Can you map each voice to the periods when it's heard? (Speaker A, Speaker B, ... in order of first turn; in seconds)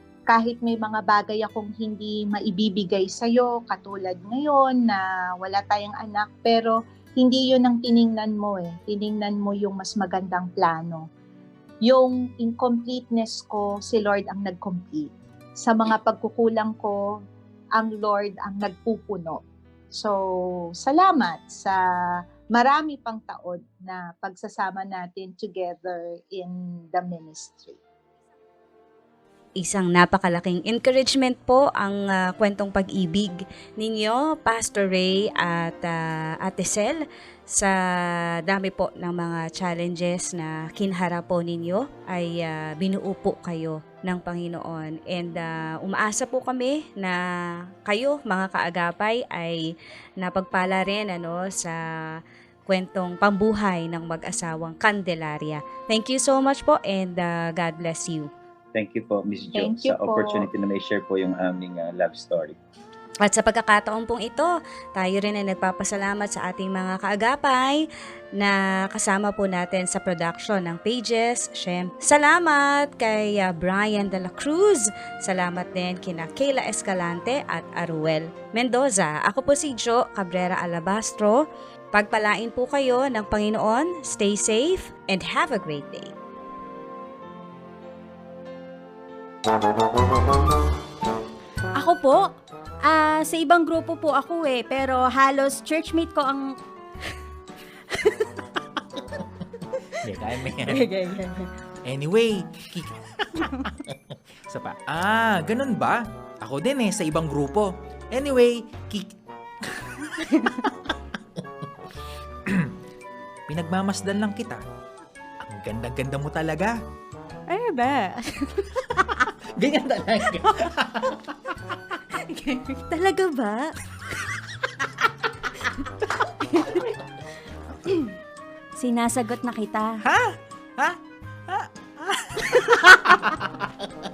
Speaker A: 0.3-11.1, 11.8-17.0, 17.8-19.4, 20.8-21.8, 22.5-27.8, 59.5-60.5
Speaker B: 29.6-37.7, 38.5-47.2, 47.9-49.6, 50.2-51.8, 52.7-58.3, 63.2-67.8, 68.4-81.4, 81.9-86.1
Speaker C: 58.7-62.6
Speaker D: 91.8-92.2, 92.9-96.5, 100.6-101.5, 117.5-119.1, 122.2-123.7, 126.5-126.8, 128.8-129.9
Speaker E: 100.0-100.8, 101.8-103.9, 104.5-109.1, 112.5-112.7, 113.5-114.6, 115.4-116.8, 119.5-121.2, 130.0-133.7